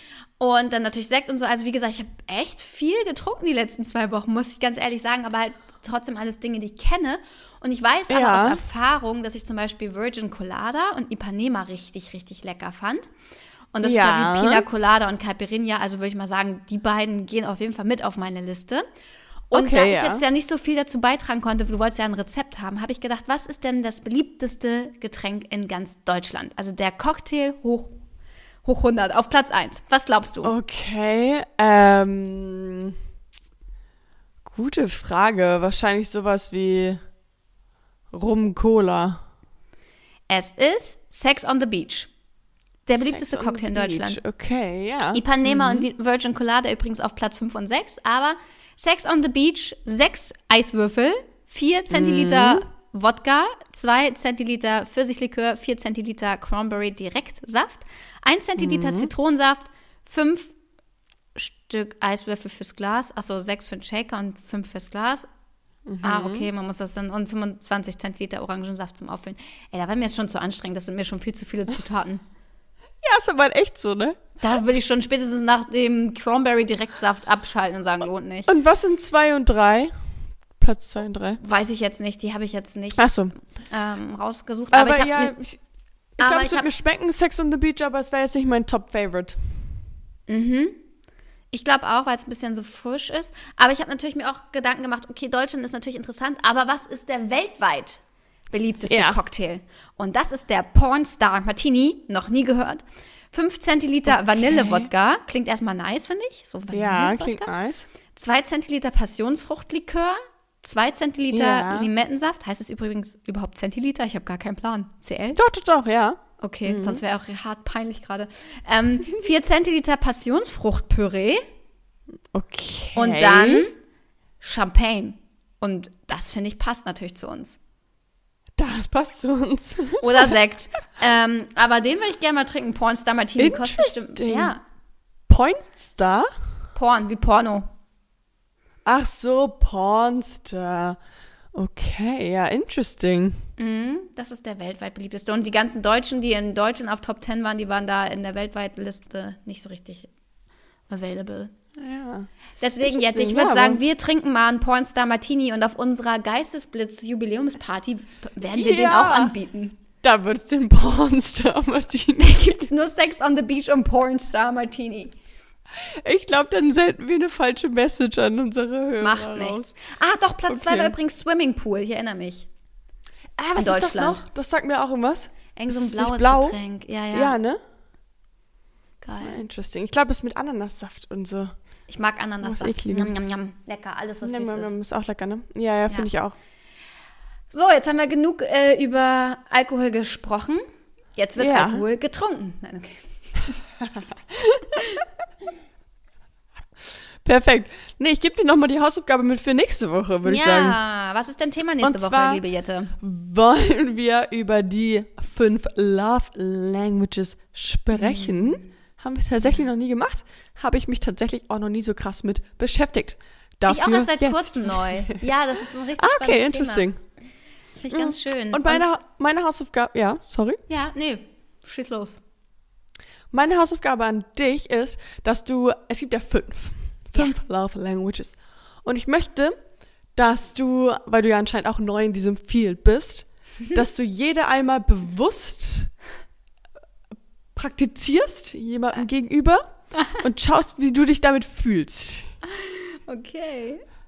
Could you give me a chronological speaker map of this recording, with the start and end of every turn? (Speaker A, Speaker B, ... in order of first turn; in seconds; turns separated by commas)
Speaker A: 0.4-13.1, Speaker B: 8.1-8.6, Speaker A: 13.7-18.8, Speaker B: 13.8-14.6, Speaker A: 19.5-27.9, Speaker B: 19.5-20.2, Speaker A: 28.6-30.5, Speaker B: 30.4-32.9, Speaker B: 34.4-37.0, Speaker B: 38.1-39.2, Speaker A: 40.3-42.1, Speaker A: 42.9-44.2, Speaker B: 43.0-45.9, Speaker A: 45.1-60.5, Speaker B: 51.9-52.6, Speaker B: 58.6-59.1, Speaker A: 61.3-65.3, Speaker B: 65.9-66.5, Speaker A: 66.0-72.2, Speaker B: 73.0-74.2, Speaker A: 74.4-78.5, Speaker B: 78.5-80.0, Speaker B: 80.5-81.4, Speaker A: 81.4-85.3, Speaker B: 83.0-83.3, Speaker B: 84.7-85.6, Speaker A: 86.2-86.7, Speaker B: 86.2-89.5, Speaker A: 90.3-90.8, Speaker A: 91.5-107.5, Speaker B: 98.9-99.2, Speaker B: 104.1-104.9, Speaker B: 106.7-107.9, Speaker A: 108.1-115.4, Speaker B: 111.3-111.9, Speaker B: 115.3-117.0, Speaker A: 116.4-121.4, Speaker B: 122.3-123.7, Speaker A: 122.9-123.7, Speaker A: 124.4-127.6, Speaker B: 128.6-130.3, Speaker A: 130.0-134.6, Speaker B: 133.4-134.5, Speaker B: 135.3-136.3, Speaker A: 136.7-137.7, Speaker B: 138.8-141.0, Speaker B: 141.5-143.4, Speaker A: 143.6-150.1, Speaker A: 150.9-151.5, Speaker B: 151.8-152.3, Speaker A: 152.6-159.8, Speaker B: 152.8-153.8, Speaker B: 158.5-159.3, Speaker B: 160.0-162.6, Speaker A: 162.2-165.1, Speaker B: 165.8-169.7, Speaker A: 169.0-172.5, Speaker B: 170.5-170.9, Speaker B: 173.4-176.6, Speaker A: 173.6-174.2, Speaker A: 175.6-177.3, Speaker B: 177.1-177.6, Speaker A: 179.0-179.4, Speaker B: 179.2-181.5, Speaker A: 181.9-184.7, Speaker B: 182.4-183.1, Speaker B: 184.2-186.3, Speaker A: 187.5-190.6, Speaker A: 191.2-193.5, Speaker B: 191.4-191.8, Speaker B: 197.2-200.8, Speaker A: 200.2-202.9, Speaker B: 201.8-202.4, Speaker B: 203.0-215.2, Speaker A: 207.9-208.6, Speaker A: 213.7-216.9, Speaker B: 216.0-217.0, Speaker A: 217.8-218.9, Speaker B: 217.9-220.6, Speaker A: 220.7-222.2, Speaker B: 223.3-229.6, Speaker B: 230.1-235.9, Speaker B: 237.6-242.3, Speaker A: 242.4-243.8